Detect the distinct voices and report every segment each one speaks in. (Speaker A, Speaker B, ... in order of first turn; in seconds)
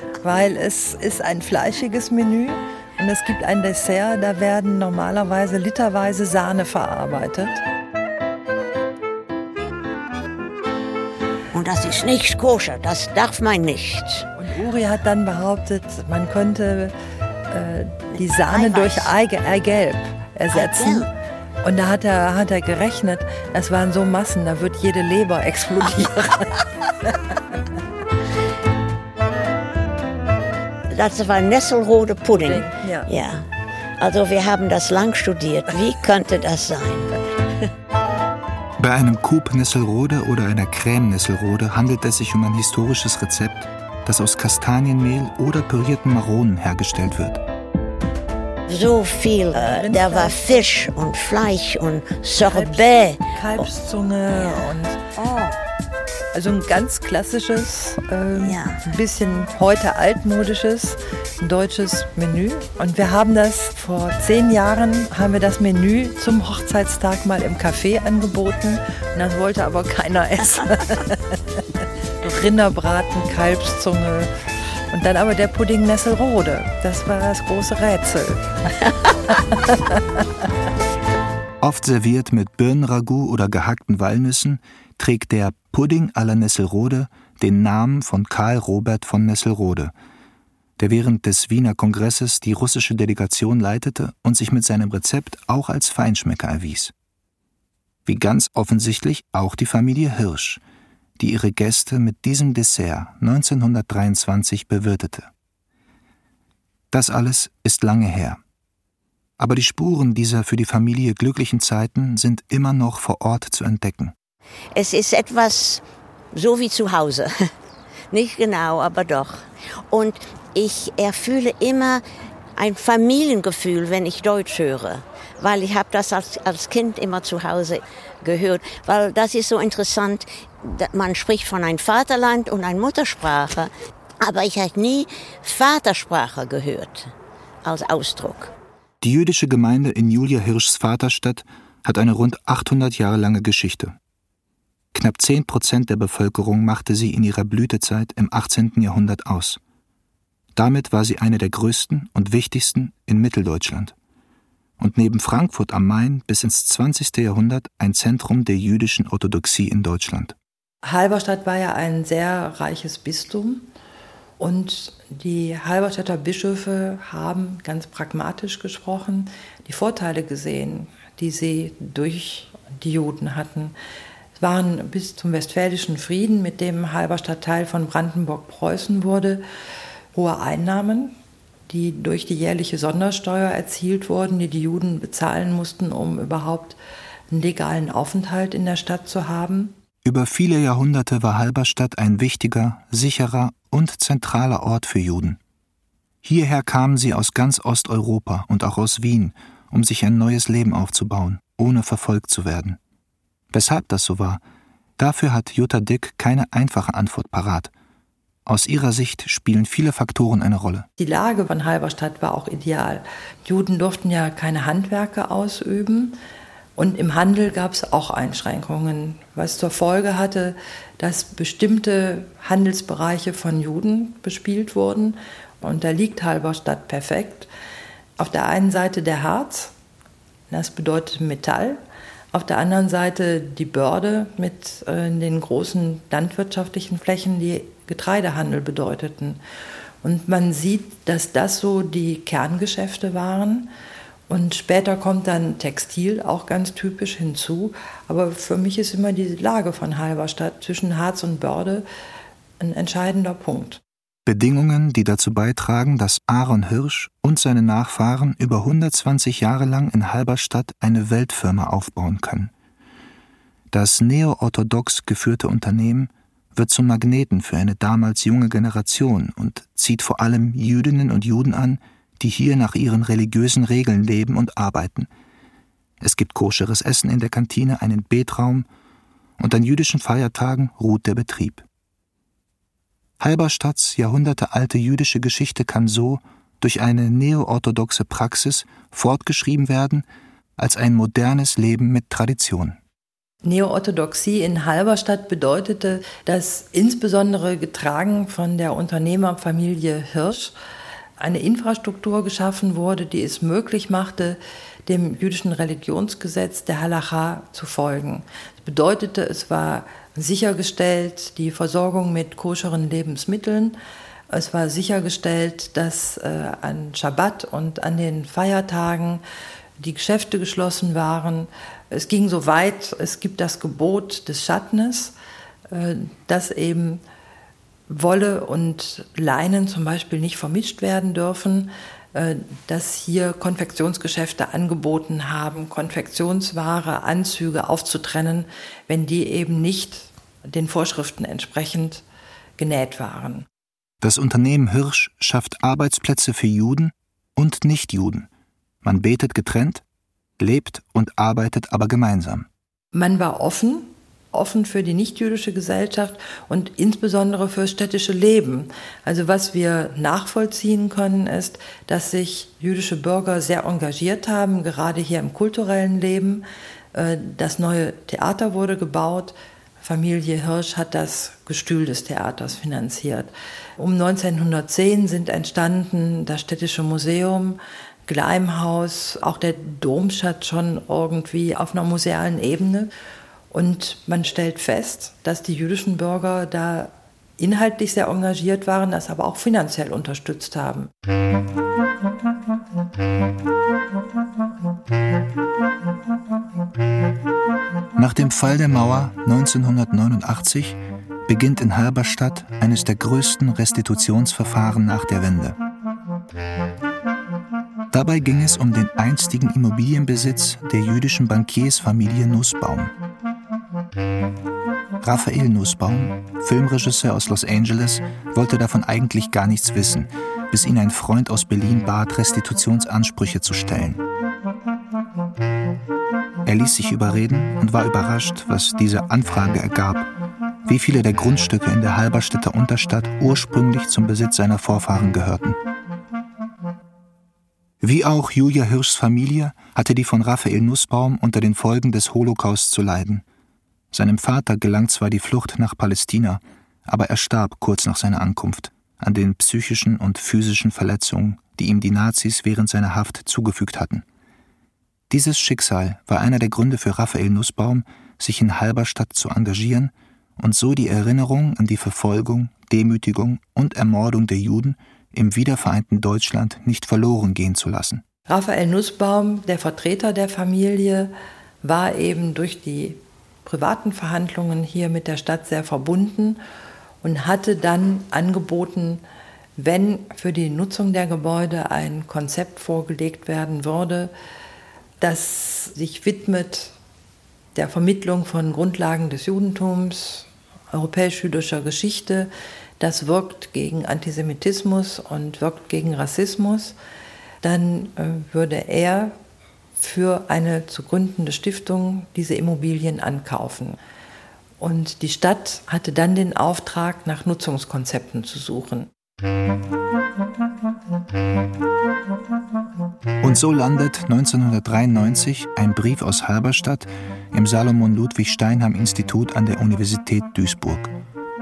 Speaker A: 0.2-7.6, 14.3-16.9, 17.5-21.1, 21.6-26.5, 32.4-33.1, 49.5-50.5, 52.5-55.0, 56.3-71.6, 72.2-74.3, 74.9-78.7, 79.3-79.7, 160.8-163.7, 164.4-173.7, 174.4-179.4, 180.1-181.2, 181.7-186.8, 187.3-189.7, 211.0-216.2, 216.8-227.5, 228.2-229.7, 230.5-231.8, 232.3-239.4, 240.0-243.7, 244.3-251.9, 252.6-253.8, 293.4-300.5, 301.2-313.8, 314.3-319.2, 319.8-325.1, 325.7-327.0, 327.9-342.0, 342.6-343.5, 352.9-382.9, 383.5-390.9, 468.3-476.4, 477.0-479.0, 479.6-484.1, 485.0-486.7, 487.6-496.8, 497.4-499.1, 499.8-503.8, 504.6-508.9
Speaker B: 11.5-14.3, 18.1-19.1, 20.5-21.1, 30.9-33.5, 34.0-37.2, 48.7-53.7, 55.1-55.6, 58.4-58.9, 114.7-117.3, 118.1-122.0, 122.6-137.1, 137.6-138.5
Speaker C: 38.8-47.4, 81.6-89.9, 90.8-96.9, 98.1-100.6, 101.2-105.3, 106.9-108.4, 109.4-114.1, 139.0-144.0, 144.9-149.6, 150.6-153.9, 154.8-160.3, 190.0-195.4, 196.2-202.8, 203.5-204.4, 205.0-207.7, 208.5-210.9, 254.3-262.5, 263.7-275.1, 276.0-278.7, 279.4-281.6, 283.2-290.1, 290.6-292.8, 344.0-348.3, 348.8-349.8, 350.4-352.5, 398.0-405.6, 407.9-412.9, 415.0-424.0, 426.4-430.1, 430.7-435.6, 437.8-443.2, 443.9-454.1, 455.1-468.0, 513.2-520.9